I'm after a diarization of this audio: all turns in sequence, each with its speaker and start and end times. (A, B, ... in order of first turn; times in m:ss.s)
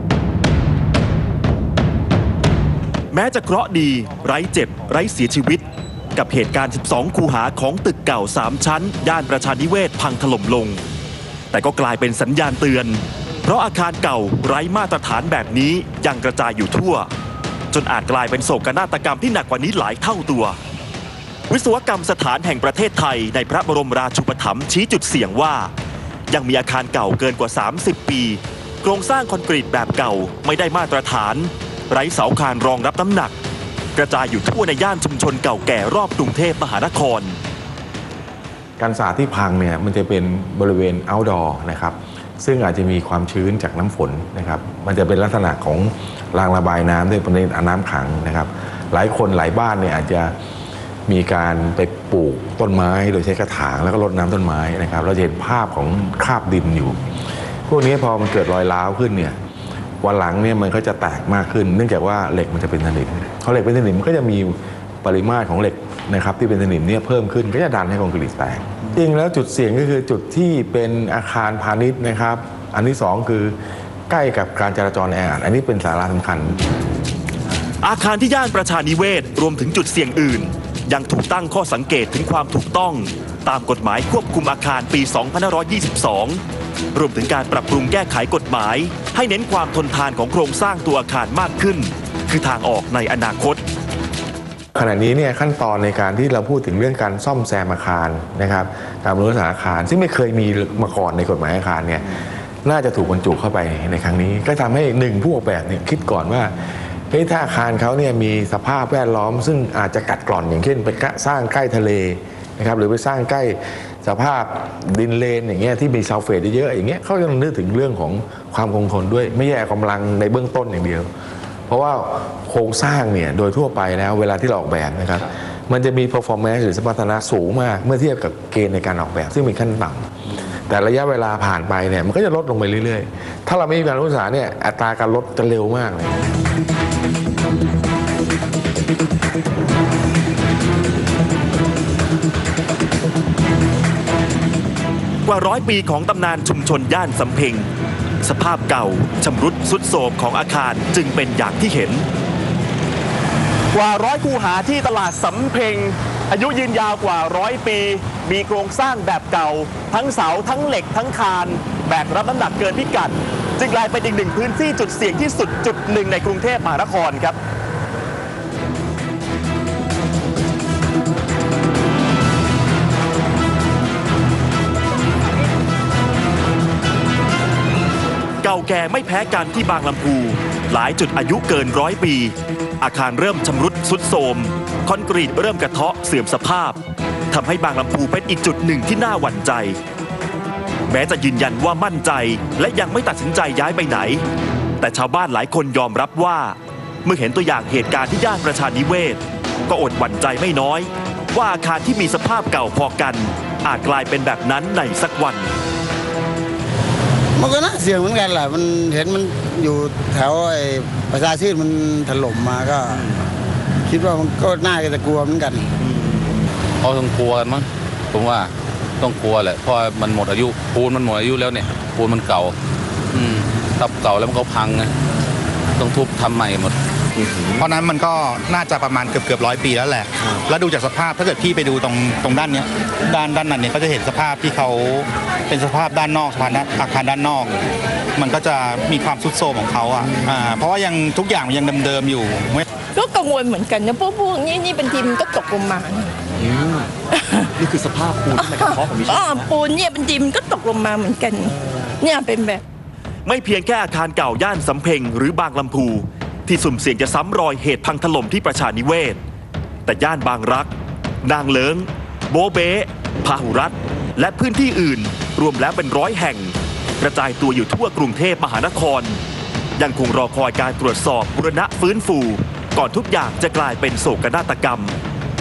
0:03.1-0:05.6 A
0:06.2-0:10.8 A
0:11.5-0:17.1 A
0:17.7-0:20.6 A
0:21.5-0:25.7 A
0:26.3-0:33.3 A
0:34.0-0:37.4 A
0:38.8-0:50.3 B
0:51.1-0:57.0 B
0:57.6-0:59.4 B
1:00.0-1:13.6 B
1:14.1-1:16.6 B
1:17.8-1:26.4 A
1:26.9-1:33.6 A
1:34.7-1:46.6 B
1:47.1-2:01.1 B
2:01.7-2:10.1 B
2:10.7-2:16.2 B
2:25.2-2:27.7 A
2:28.2-2:32.0 A
2:33.7-2:47.4 A
2:58.4-3:06.8 A
3:07.3-3:09.8 A
3:10.9-3:14.2 A
3:14.8-3:25.5 A
3:27.4-3:33.1 C
3:33.8-3:35.7 C
3:36.8-3:42.6 D
3:43.1-3:44.9 D
3:45.8-3:46.7 D
3:47.4-3:57.6 E
3:58.2-4:02.6 E
4:02.9-4:06.1 F
4:06.4-4:06.9 A
4:07.1-4:07.5 F
4:07.6-4:09.4 A
4:08.3-4:12.6 F
4:13.2-4:19.2 A
4:19.8-4:20.7 A
4:21.2-4:29.2 A
4:29.8-4:35.0 A